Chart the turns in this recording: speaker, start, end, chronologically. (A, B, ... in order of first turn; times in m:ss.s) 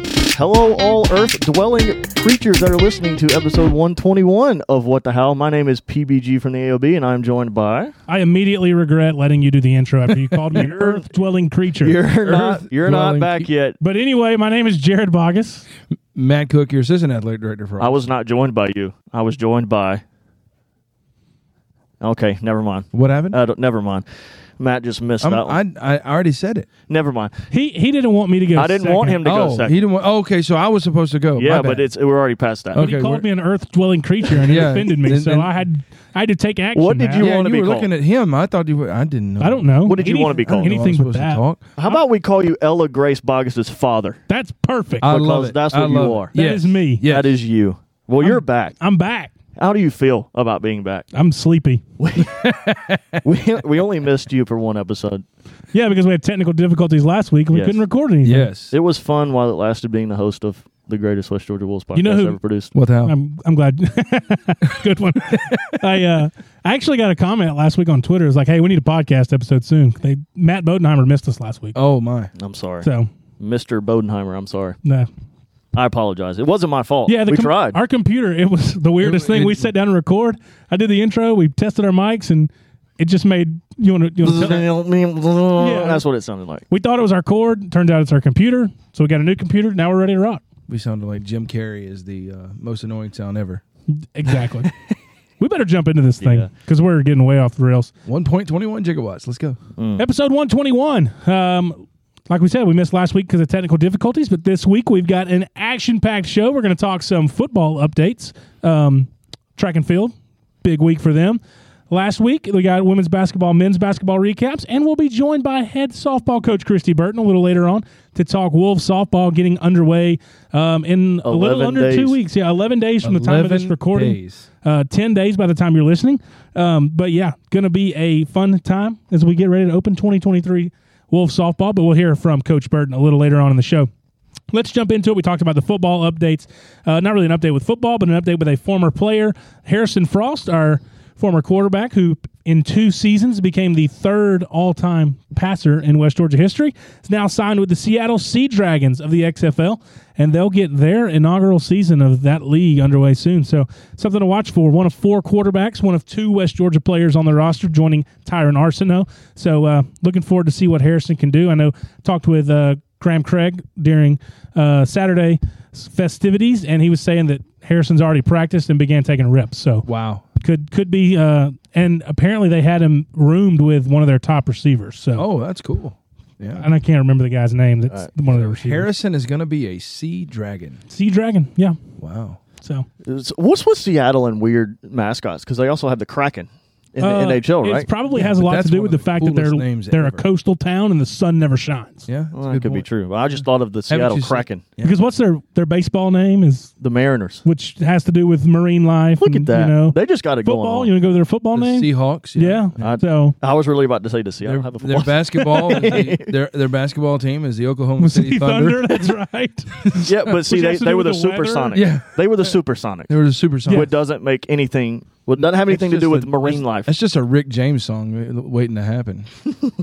0:00.3-0:07.9 A
0:08.1-0:12.0 B
0:10.5-0:11.2 A
0:11.8-0:13.8 A
0:12.2-0:13.5 C
0:13.8-0:15.7 B
0:16.1-0:18.0 C
0:17.8-0:20.0 A
0:22.0-0:24.0 A
0:22.9-0:23.4 C
0:24.6-0:25.6 A
0:25.2-0:26.7 C
0:26.9-0:27.3 A
0:27.5-0:29.2 B
0:28.5-0:29.8 A
0:29.2-0:31.8 C
0:31.4-0:32.8 A
0:32.7-0:33.2 C
0:32.7-0:37.3 B
0:34.4-0:35.5 C
0:36.7-0:37.9 A
0:37.2-0:41.6 C
0:39.4-0:42.0 B
0:39.8-0:40.7 A
0:41.8-0:44.2 A
0:44.3-0:45.1 B
0:45.0-0:47.3 C
0:45.0-0:46.3 A
0:46.3-0:47.0 B
0:47.0-0:48.8 A
0:48.2-0:49.3 B
0:49.6-0:51.1 A
0:51.1-0:51.8 B
0:52.0-0:52.4 A
0:52.2-0:53.2 C
0:53.2-0:55.2 A
0:55.7-0:58.5 B
0:57.5-0:57.8 A
0:58.2-0:58.7 C
0:58.7-1:02.7 A
1:01.9-1:02.4 B
1:02.7-1:03.1 C
1:03.0-1:11.8 B
1:05.3-1:05.8 C
1:11.7-1:12.3 C
1:12.4-1:12.9 A
1:12.8-1:13.1 B
1:13.4-1:14.8 A
1:15.7-1:17.8 A
1:17.1-1:24.7 B
1:19.0-1:19.7 C
1:24.2-1:26.6 A
1:25.6-1:26.0 B
1:26.7-1:30.4 B
1:30.7-1:33.6 C
1:33.9-1:34.7 B
1:35.4-1:37.9 B
1:36.2-1:36.5 A
1:38.0-1:39.6 C
1:39.8-1:40.0 A
1:40.0-2:13.9 B
2:01.2-2:02.2 A
2:03.0-2:04.4 C
2:14.5-2:49.8 B
2:49.8-2:50.2 C
2:50.4-2:55.2 B
2:55.2-2:56.6 C
2:56.5-2:58.9 B
2:58.3-3:00.8 C
3:00.9-3:01.8 B
3:02.0-3:02.4 C
3:02.6-3:02.8 B
3:03.0-3:07.9 A
3:07.0-3:12.1 B
3:08.1-3:10.2 C
3:12.1-3:12.8 C
3:12.3-3:14.6 A
3:13.9-3:14.9 C
3:14.8-3:16.7 B
3:16.8-3:17.4 A
3:17.4-3:23.4 B
3:19.2-3:20.9 A
3:21.5-3:22.9 C
3:22.8-3:26.3 A
3:24.4-3:28.9 C
3:28.0-3:31.7 B
3:30.0-3:33.2 A
3:31.7-3:32.6 C
3:33.1-3:33.9 C
3:33.6-3:33.9 B
3:33.7-3:36.9 A
3:35.4-3:39.3 C